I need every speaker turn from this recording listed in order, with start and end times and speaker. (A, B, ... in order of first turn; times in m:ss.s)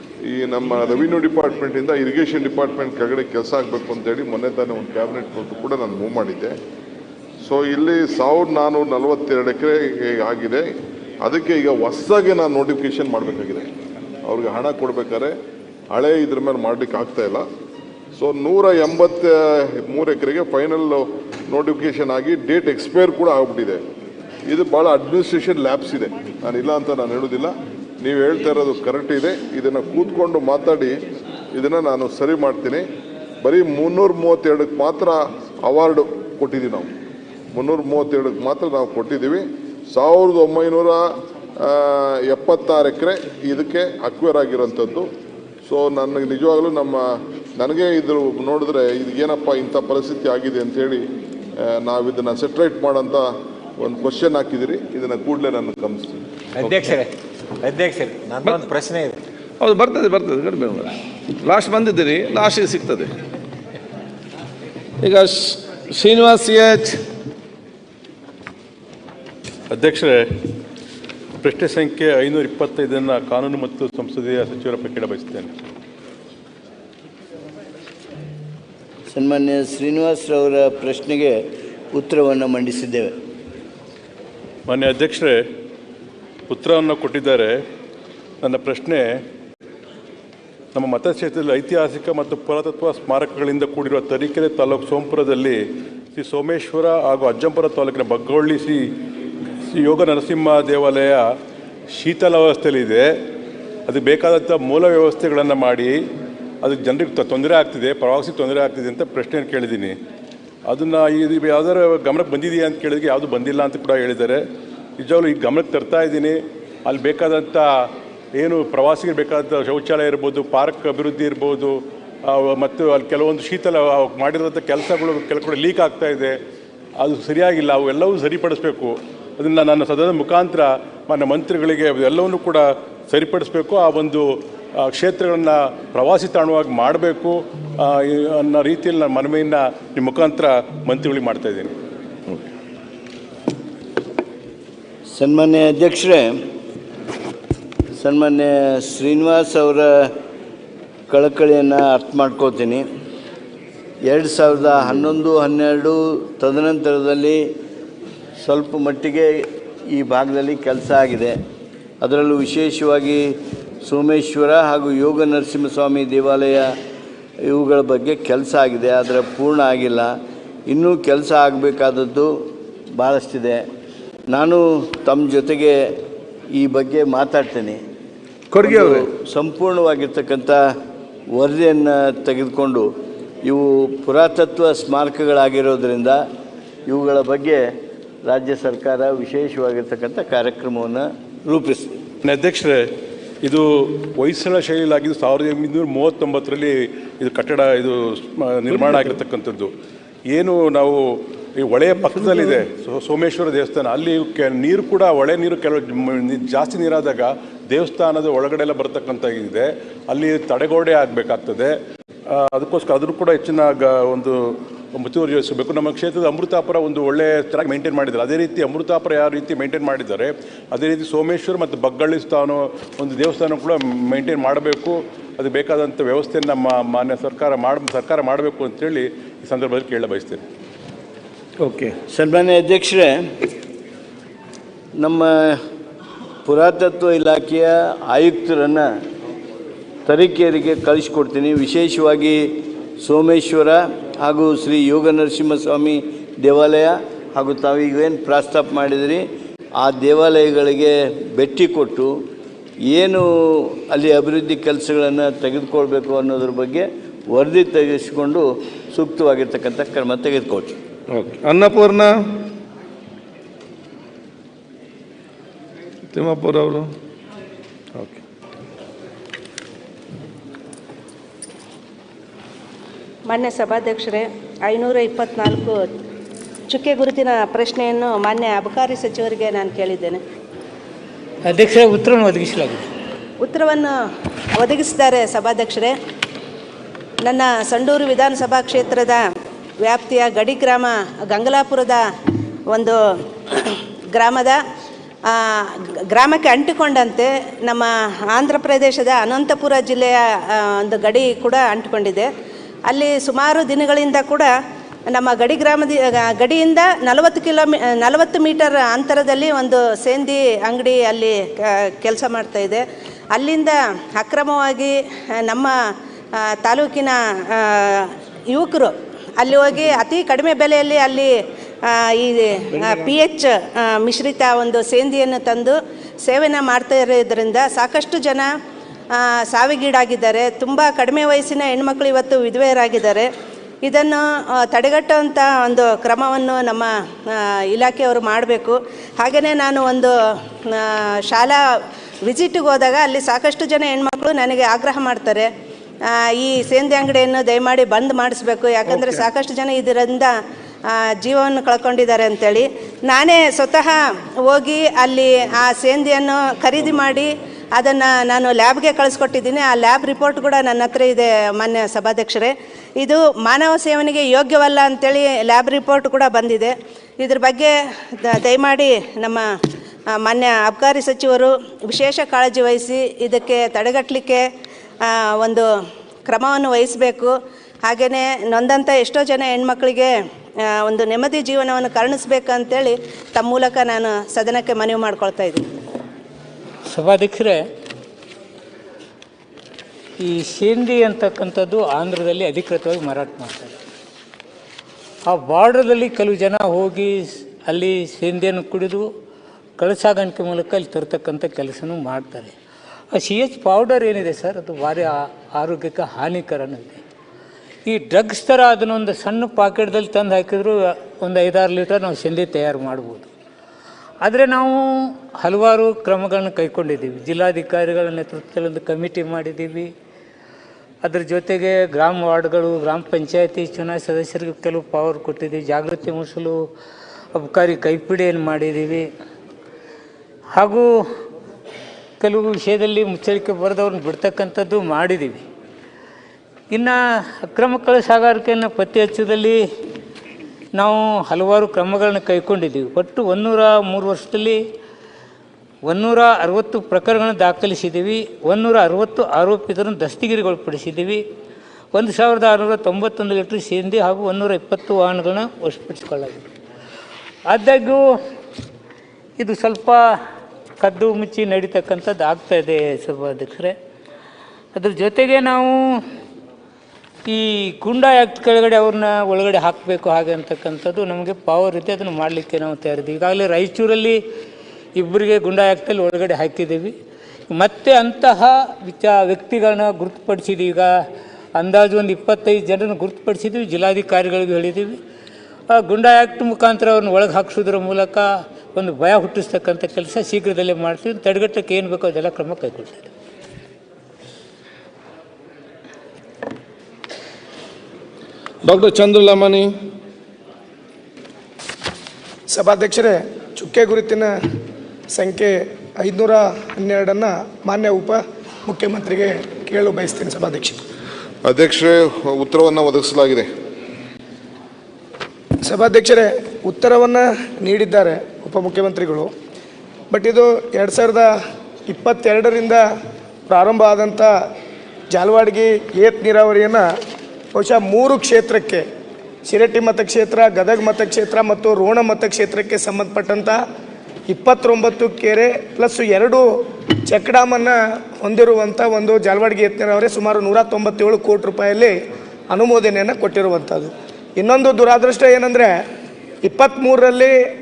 0:00.3-0:06.6 A
0:07.4-0:10.7 A
0:11.2-0:13.7 A
0:14.2-0:15.3 A
0:15.9-0:17.5 A
0:18.2-0:23.8 A
0:24.5-0:31.0 A
0:31.5-0:32.8 A
0:33.4-0:36.9 A
0:37.5-0:45.1 A
0:45.6-0:51.0 A
0:51.6-0:53.3 A
0:53.8-0:56.2 A
0:56.6-0:57.0 B
0:56.6-0:57.0 C
0:57.6-0:59.2 B
0:58.4-0:58.7 C
0:59.6-1:03.1 C
1:05.0-1:07.0 C
1:09.7-1:10.3 D
1:11.4-1:15.5 D
1:19.1-1:23.2 E
1:24.7-1:25.4 D
1:26.5-1:27.6 D
1:28.4-1:29.2 D
1:30.8-1:35.6 D
1:36.2-1:38.9 D
1:39.7-1:41.3 D
1:41.9-1:43.2 D
1:43.9-1:46.0 D
1:46.6-1:50.0 D
1:50.7-1:54.4 D
1:55.0-2:06.4 D
2:07.0-2:21.7 D
2:25.1-2:26.4 E
2:28.0-2:30.1 E
2:31.1-2:32.8 E
2:34.1-2:37.4 E
2:38.4-2:41.4 E
2:42.0-2:46.8 E
2:47.4-2:50.1 E
2:50.7-2:53.7 E
2:54.3-2:55.8 E
2:56.6-2:57.8 E
2:58.5-2:59.1 C
2:58.6-3:00.6 E
3:01.3-3:02.9 E
3:03.4-3:06.2 E
3:06.9-3:07.7 E
3:08.2-3:12.0 E
3:12.2-3:12.9 D
3:13.4-3:19.7 D
3:20.3-3:31.8 D
3:32.3-3:50.4 D
3:51.6-3:52.0 C
3:52.1-3:53.3 E
3:55.0-3:55.6 E
3:56.4-3:58.9 E
4:00.1-4:09.2 E
4:09.8-4:12.1 E
4:12.9-4:20.8 E
4:21.1-4:22.1 C
4:26.1-4:26.9 C
4:33.3-4:35.9 F
4:36.7-4:40.2 F
4:41.5-4:42.9 G
4:43.4-4:43.9 F
4:44.6-4:46.0 F
4:47.2-4:49.2 F
4:49.8-4:52.0 F
4:52.7-4:54.6 F
4:55.3-5:02.3 F
5:02.9-5:04.5 F
5:05.1-5:15.7 F
5:16.4-5:28.5 F
5:22.8-5:23.1 C
5:29.1-5:33.3 F
5:33.8-5:40.1 F
5:40.7-5:41.6 F
5:42.3-5:45.5 F
5:46.1-5:50.3 F
5:48.9-5:49.2 C
5:50.9-6:09.4 F
6:10.2-6:14.5 F
6:15.0-6:15.6 F
6:16.3-6:17.4 F
6:17.9-6:25.6 F
6:26.9-6:27.6 G
6:30.2-6:33.7 G
6:35.3-6:39.1 G
6:39.8-6:42.5 G
6:43.1-6:47.0 G
6:47.9-6:53.3 G
6:54.2-6:59.9 G
7:01.0-7:06.7 G
7:07.4-7:09.1 G
7:10.6-7:10.9 G
7:12.2-7:15.4 G
7:16.7-7:19.6 G
7:20.8-7:24.6 G
7:25.9-7:31.2 G
7:31.9-7:36.4 G
7:37.5-7:38.0 G
7:39.4-7:40.0 G
7:40.8-7:43.8 G
7:44.8-7:46.0 G
7:47.3-7:54.2 G
7:55.0-7:57.0 G
7:57.5-8:00.9 G
8:01.6-8:05.0 G
8:05.7-8:13.1 G
8:18.6-8:19.7 C
8:22.5-8:24.3 H
8:25.2-8:30.8 H
8:31.4-8:33.5 A
8:35.6-8:39.3 H
8:40.1-8:41.3 H
8:41.9-8:42.8 H
8:43.5-8:44.3 H
8:45.1-8:46.8 H
8:47.6-8:48.8 H
8:49.5-8:53.6 H
8:54.3-8:56.4 H
8:57.1-9:02.0 H
9:02.5-9:05.7 H
9:06.4-9:07.4 H